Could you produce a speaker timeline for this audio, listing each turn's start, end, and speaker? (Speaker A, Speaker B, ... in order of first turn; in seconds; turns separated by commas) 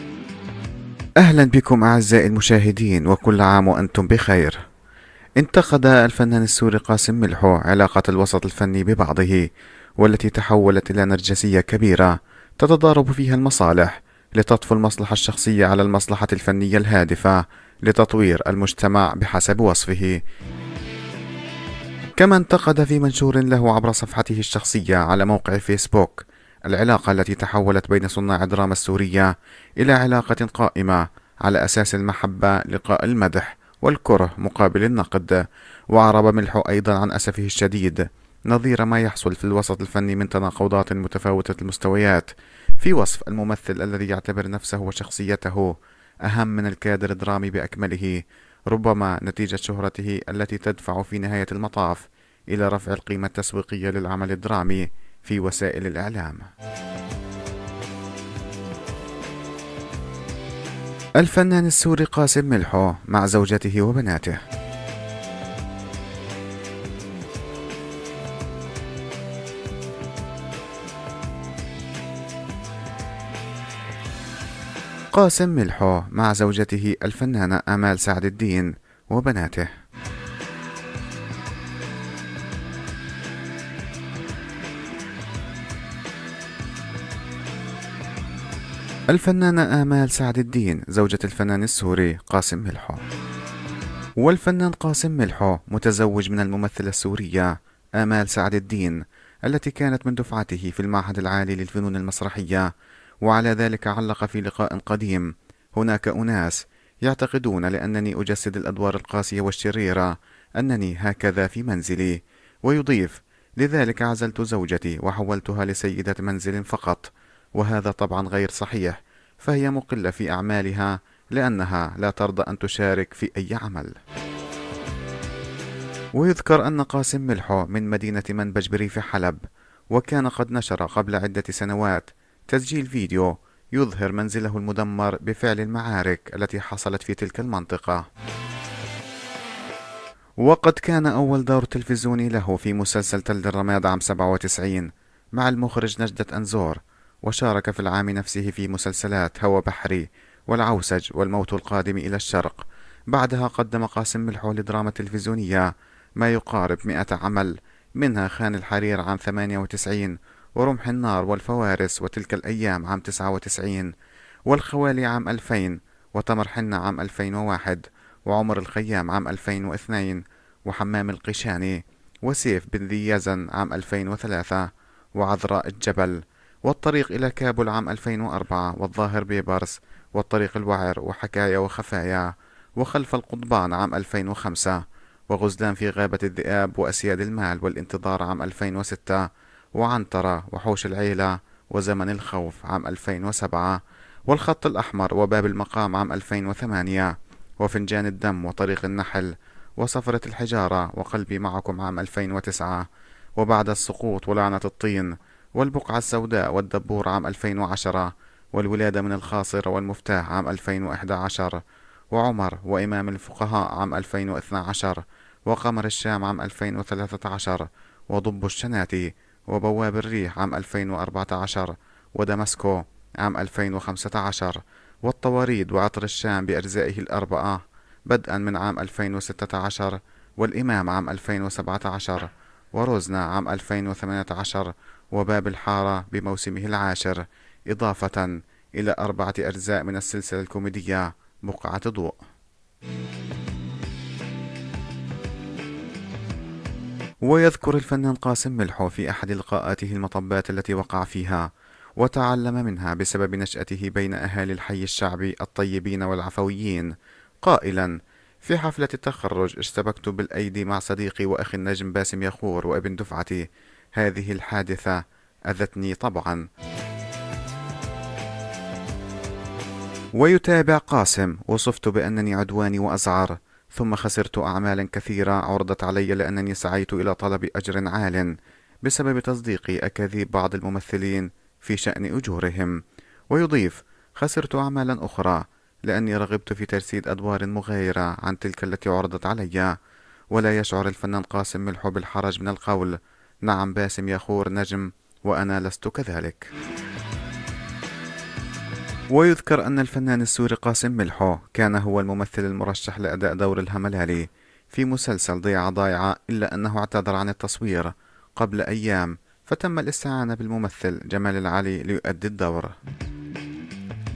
Speaker A: 1.2-4.6, Speaker A: 5.4-20.2, Speaker A: 22.2-56.5, Speaker A: 61.2-64.4, Speaker A: 75.1-79.7, Speaker A: 89.1-93.0, Speaker A: 94.2-102.7, Speaker A: 103.2-124.0, Speaker A: 126.1-138.1, Speaker A: 140.4-163.9, Speaker A: 164.5-242.2, Speaker A: 247.2-266.4, Speaker A: 270.1-289.8, Speaker A: 290.3-296.5, Speaker A: 299.1-312.7